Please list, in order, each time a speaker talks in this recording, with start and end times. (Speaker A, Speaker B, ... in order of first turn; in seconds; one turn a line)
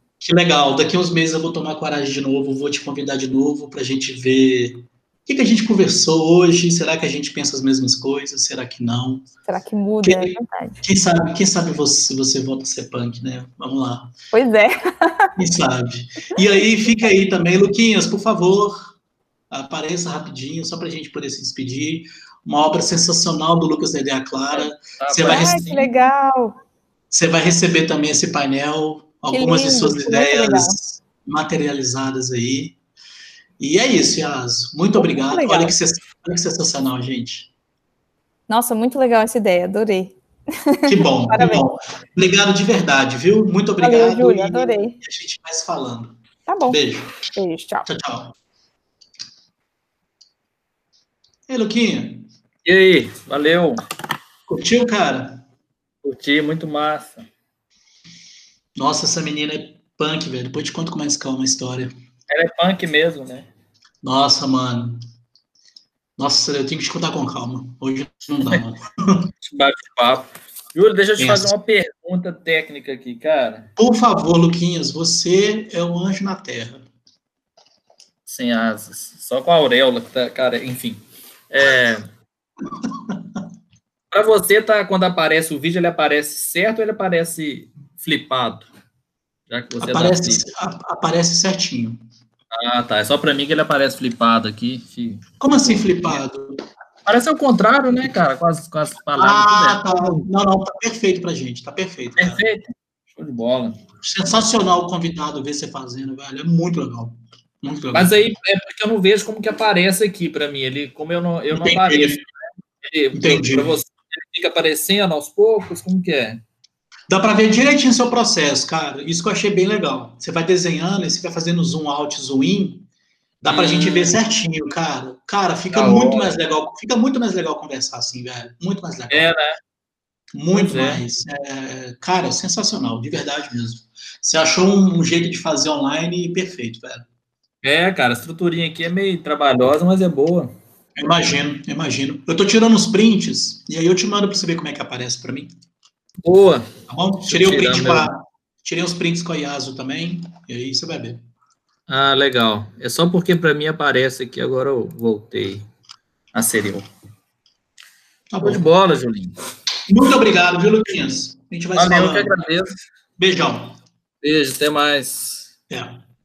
Speaker A: 0.2-9.2
Speaker B: 9.4-10.7
Speaker A: 10.0-14.1
Speaker B: 14.3-15.3
Speaker A: 15.4-18.9
Speaker A: 19.5-25.6
Speaker C: 25.0-25.9
Speaker B: 25.2-26.6
Speaker A: 27.1-32.8
Speaker B: 29.3-30.8
Speaker A: 33.6-37.5
Speaker B: 35.0-35.7
Speaker B: 38.5-41.6
Speaker A: 40.9-46.1
Speaker B: 43.8-45.0
Speaker B: 46.5-47.9
Speaker A: 46.7-47.1
Speaker A: 47.8-48.3
Speaker A: 51.5-52.2
Speaker C: 52.6-53.8
Speaker A: 54.5-55.4
Speaker C: 56.0-57.2
Speaker A: 58.8-61.9
Speaker C: 62.3-63.5
Speaker A: 64.0-65.0
Speaker A: 66.2-69.3
Speaker C: 69.4-73.7
Speaker A: 71.2-71.5
Speaker A: 73.8-76.8
Speaker C: 78.2-82.1
Speaker A: 82.9-83.2
Speaker C: 84.1-88.7
Speaker C: 89.5-90.4
Speaker A: 89.8-92.0
Speaker C: 92.5-95.8
Speaker A: 95.4-96.6
Speaker C: 97.0-100.2
Speaker A: 99.2-102.5
Speaker C: 102.2-103.8
Speaker A: 104.0-108.1
Speaker C: 107.9-112.2
Speaker A: 111.5-112.2
Speaker C: 112.8-116.4
Speaker A: 113.1-113.8
Speaker A: 117.1-122.9
Speaker A: 123.4-129.3
Speaker C: 123.5-124.2
Speaker C: 125.7-126.4
Speaker C: 129.1-129.6
Speaker A: 130.3-137.1
Speaker C: 130.5-131.0
Speaker C: 137.6-140.5
Speaker A: 141.0-145.5
Speaker C: 146.2-146.7
Speaker A: 146.9-151.2
Speaker C: 147.3-148.1
Speaker C: 151.9-155.7
Speaker C: 156.3-156.9
Speaker A: 158.3-158.7
Speaker C: 158.4-159.3
Speaker A: 159.9-162.3
Speaker C: 161.8-162.7
Speaker A: 163.2-163.8
Speaker C: 164.2-165.5
Speaker A: 165.7-166.0